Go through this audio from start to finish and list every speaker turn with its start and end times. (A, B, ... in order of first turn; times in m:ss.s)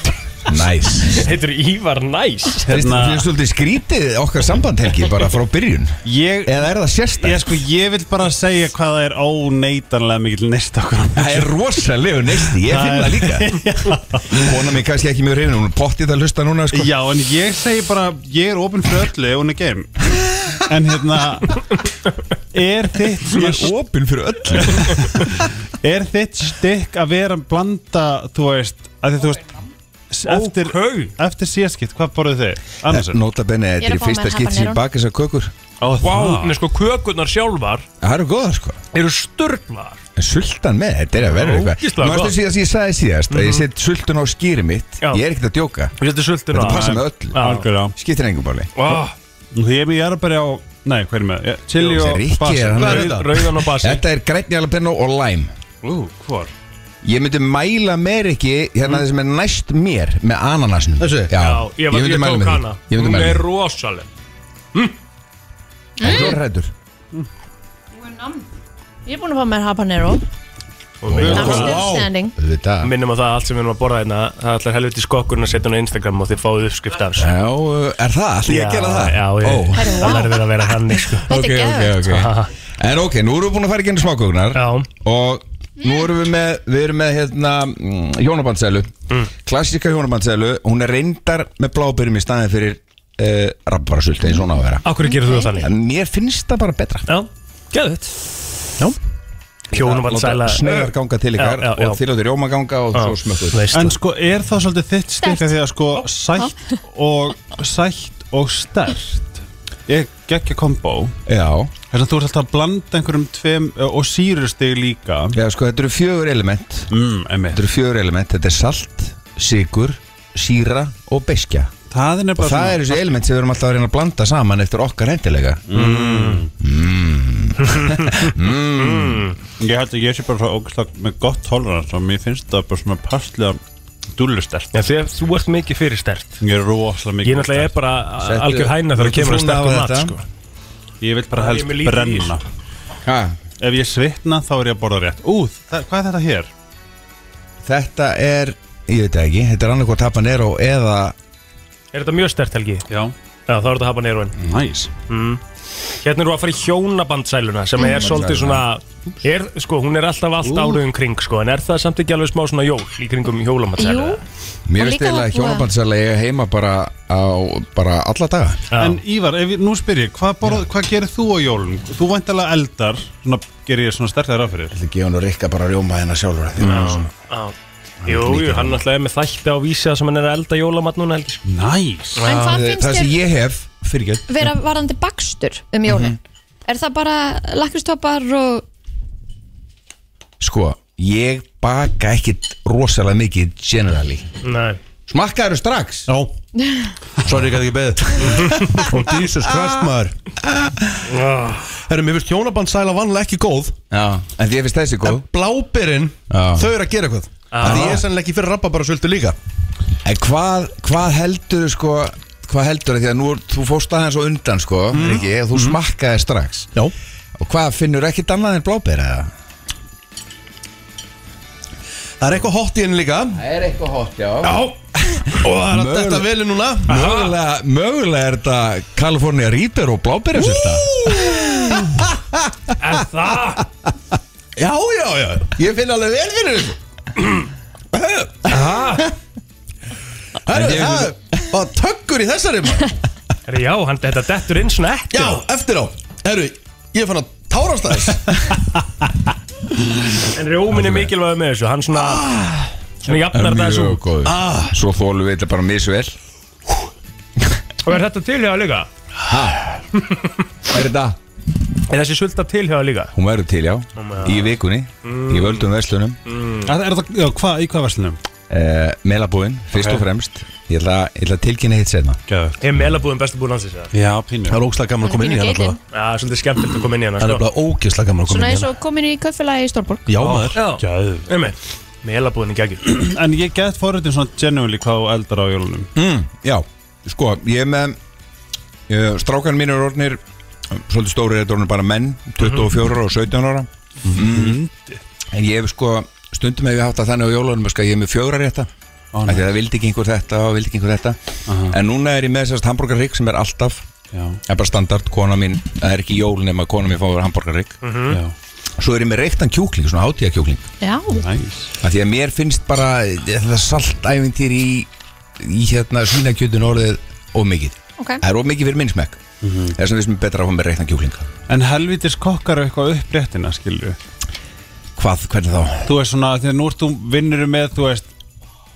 0:00.5-0:01.3 A
0:01.0-0:02.7 B
0:02.7-0:07.6 A
0:02.7-0:03.3 C
0:06.0-0:06.6 C
0:07.2-0:11.5 C
0:11.1-0:13.6 A
0:12.5-0:14.7 C
0:14.3-0:16.9 A
0:16.7-0:20.0 C
0:20.2-0:20.6 A
0:20.7-0:21.6 C
0:22.5-0:23.7 C
0:23.2-0:25.3 A
0:24.6-0:25.1 C
0:25.8-0:29.6 C
0:30.1-0:33.2 C
0:30.2-0:31.1 B
0:32.8-0:35.5 A
0:33.8-0:34.8 D
0:35.8-0:36.6 C
0:36.0-0:37.9 B
0:38.0-0:38.8 A
0:38.9-0:40.0 B
0:40.2-0:45.9 A
0:41.2-0:42.4 B
0:43.3-0:43.7 B
0:46.0-0:47.6 B
0:46.5-0:48.7 A
0:46.6-0:47.9 C
0:48.8-0:49.1 B
0:49.5-0:53.1 C
0:51.8-0:53.1 A
0:52.8-0:53.3 E
0:52.8-0:54.0 B
0:53.6-0:55.5 A
0:55.8-0:56.5 C
0:57.0-1:03.4 A
1:01.0-1:01.3 E
1:01.4-1:04.1 B
1:06.0-1:06.4 D
1:06.0-1:06.7 A
1:08.0-1:08.4 D
1:09.0-1:10.2 D
1:11.0-1:11.9 B
1:11.0-1:12.9 A
1:11.2-1:12.3 D
1:12.8-1:17.3 B
1:17.2-1:20.1 A
1:18.4-1:21.3 B
1:19.7-1:20.4 D
1:21.1-1:22.1 D
1:21.3-1:28.9 A
1:22.0-1:22.5 B
1:24.5-1:24.9 B
1:29.4-1:34.8 A
1:34.8-1:35.7 B
1:35.0-1:35.6 D
1:35.6-1:37.1 A
1:37.1-1:38.2 B
1:39.7-1:42.0 B
1:39.7-1:43.7 A
1:42.9-1:44.0 B
1:43.7-1:51.2 C
1:45.2-1:45.5 D
1:51.2-1:51.7 A
1:51.9-1:55.4 C
1:55.3-1:56.9 A
1:56.9-1:57.6 C
1:57.5-2:01.7 A
2:01.9-2:03.0 C
2:02.4-2:05.6 A
2:05.7-2:06.5 C
2:05.7-2:06.4 B
2:06.6-2:09.2 A
2:07.6-2:09.4 B
2:09.6-2:13.6 C
2:14.1-2:14.7 C
2:14.7-2:16.4 B
2:16.4-2:17.7 C
2:17.2-2:20.2 B
2:18.2-2:20.2 A
2:21.0-2:22.4 C
2:21.3-2:22.3 B
2:23.0-2:23.4 A
2:23.6-2:26.5 C
2:27.6-2:31.1 A
2:31.9-2:32.9 B
2:32.9-2:33.1 C
2:33.5-2:34.4 B
2:34.4-2:34.9 C
2:35.1-2:35.4 B
2:36.0-2:44.2 B
2:37.8-2:38.2 D
2:37.9-2:38.6 A
2:40.4-2:40.8 C
2:43.8-2:44.2 D
2:44.7-2:48.6 A
2:44.8-2:45.7 D
2:48.7-2:49.0 B
2:48.8-2:54.7 C
2:54.7-2:57.1 A
2:56.6-3:01.4 B
2:58.0-2:58.8 A
3:01.4-3:02.2 C
3:02.2-3:02.6 B
3:02.2-3:03.2 D
3:02.4-3:04.3 A
3:04.3-3:08.6 D
3:05.8-3:06.2 A
3:10.4-3:14.2 A
3:14.4-3:14.8 B
3:15.1-3:16.1 A
3:16.1-3:16.3 E
3:17.2-3:20.2 E
3:18.2-3:19.1 B
3:21.1-3:21.7 B
3:21.8-3:23.8 E
3:23.9-3:25.2 A
3:25.0-3:29.4 E
3:26.3-3:26.7 A
3:27.5-3:28.0 B
3:27.6-3:28.0 A
3:30.0-3:36.7 A
3:34.9-3:35.8 E
3:37.4-3:39.3 A
3:42.2-3:43.4 E
3:43.3-3:46.3 A
3:44.4-3:44.7 E
3:45.3-3:47.0 E
3:46.9-3:47.4 B
3:46.9-3:52.0 A
3:50.3-3:52.1 E
3:52.8-3:53.6 B
3:54.6-3:56.8 E
3:57.9-3:58.6 E
3:58.5-3:59.1 B
4:00.5-4:02.9 E
4:00.5-4:01.1 A
4:03.5-4:05.4 B
4:05.1-4:08.5 E
4:10.3-4:12.3 B
4:10.7-4:11.1 A
4:13.0-4:14.0 B
4:13.2-4:16.1 A
4:14.2-4:14.7 E
4:17.8-4:18.9 B
4:19.2-4:19.7 A
4:20.7-4:21.2 A
4:21.9-4:23.1 B
4:23.1-4:26.2 A
4:24.0-4:25.7 B
4:26.2-4:26.7 B
4:26.6-4:28.2 C
4:28.5-4:32.2 A
4:29.7-4:30.0 C
4:32.3-4:32.6 C
4:32.6-4:33.9 B
4:33.9-4:34.6 C
4:34.5-4:35.8 E
4:35.0-4:35.8 D
4:35.9-4:37.4 B
4:37.2-4:38.7 E
4:38.3-4:40.1 D
4:40.1-4:40.6 E
4:40.2-4:41.3 C
4:40.5-4:42.9 B
4:42.8-4:45.9 C
4:45.9-4:48.0 A
4:48.9-4:50.2 A
4:50.7-4:54.6 A
4:52.4-4:52.7 B
4:54.1-4:55.0 C
4:55.3-4:58.7 A
4:59.1-4:59.5 C
4:59.2-5:03.8 A
5:01.5-5:01.8 C
5:04.1-5:04.4 C
5:04.4-5:07.8 A
5:07.8-5:08.2 B
5:08.1-5:08.3 C
5:08.8-5:10.7 A
5:10.8-5:11.2 D
5:11.1-5:11.7 C
5:11.8-5:19.2 A
5:18.0-5:18.2 D
5:19.4-5:19.8 C
5:19.7-5:21.3 A
5:21.5-5:24.0 C
5:25.0-5:25.9 A
5:25.8-5:28.1 C